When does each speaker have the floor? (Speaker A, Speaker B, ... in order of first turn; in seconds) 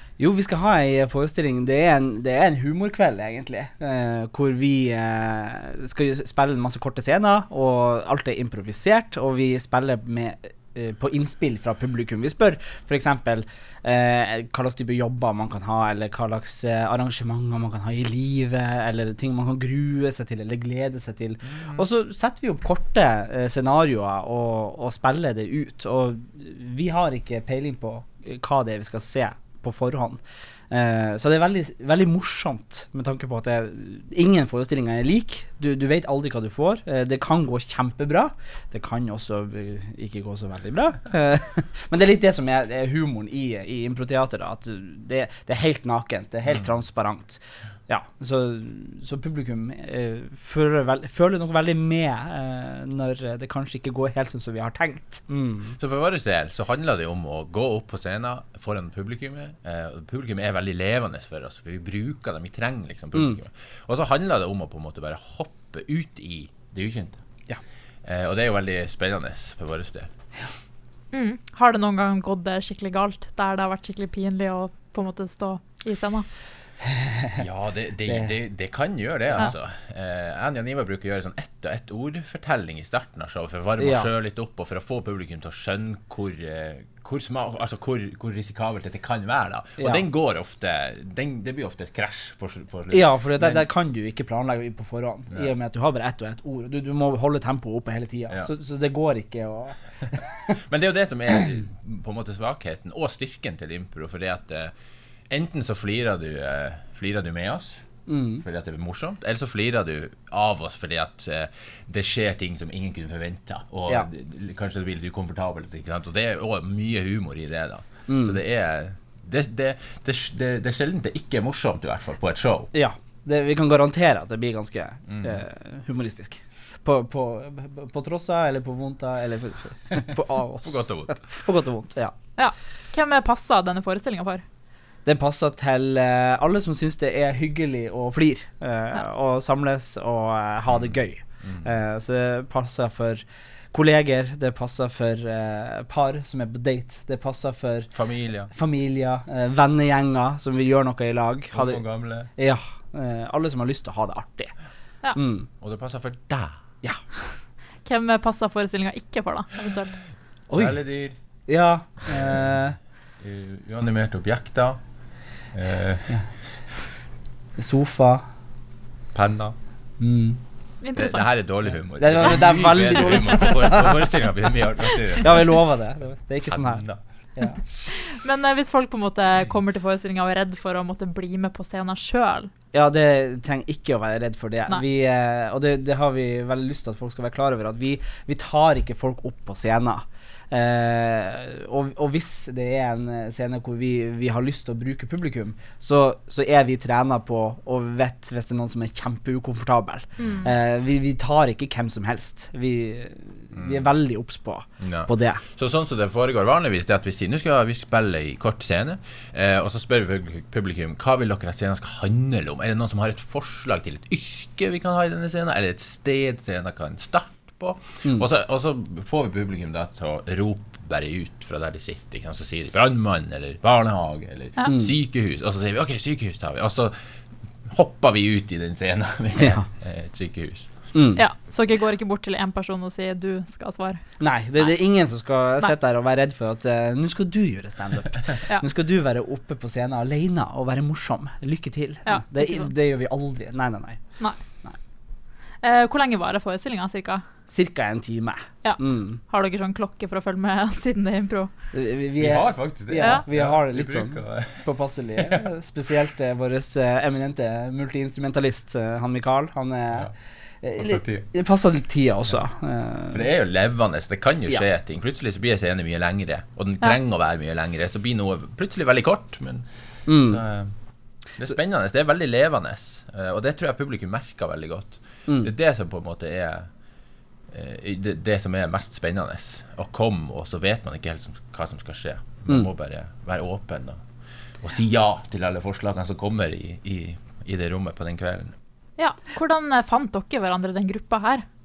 Speaker A: 0.2-55.8, 63.1-63.4, 77.1-77.4, 83.8-84.1, 89.8-90.0, 92.9-100.4, 108.1-108.4, 118.1-118.4, 122.7-132.1, 135.0-154.5, 155.1-155.5, 160.5-160.8, 161.5-162.8, 167.6-168.2, 170.0-170.4, 172.0-174.0, 175.2-177.6, 182.7-205.4, 224.7-224.9, 229.3-229.6, 230.9-231.2, 234.2-244.8, 247.5-249.2, 251.7-263.2, 270.1-270.4, 275.3-275.5
Speaker B: 21.5-21.8, 55.8-67.2, 68.0-70.1, 77.4-93.7, 100.5-104.7, 105.3-122.7, 125.1-125.4, 130.6-131.3, 140.7-141.7, 147.9-148.5, 151.5-152.3, 155.6-156.6, 160.5-161.2, 162.1-162.7, 163.2-166.3, 169.1-169.6, 170.9-175.6, 176.5-177.6, 203.5-203.9, 204.8-226.9, 227.6-230.9, 252.2-255.4, 260.8-261.3, 263.1-276.7, 277.5-284.0, 284.6-288.5
Speaker C: 71.1-76.3, 132.4-134.4, 157.8-160.0, 170.8-171.3, 178.0-182.5, 200.2-200.5, 231.2-234.8, 242.1-242.7, 244.2-244.4, 245.6-247.2, 248.6-251.5, 253.0-253.2, 289.0-291.4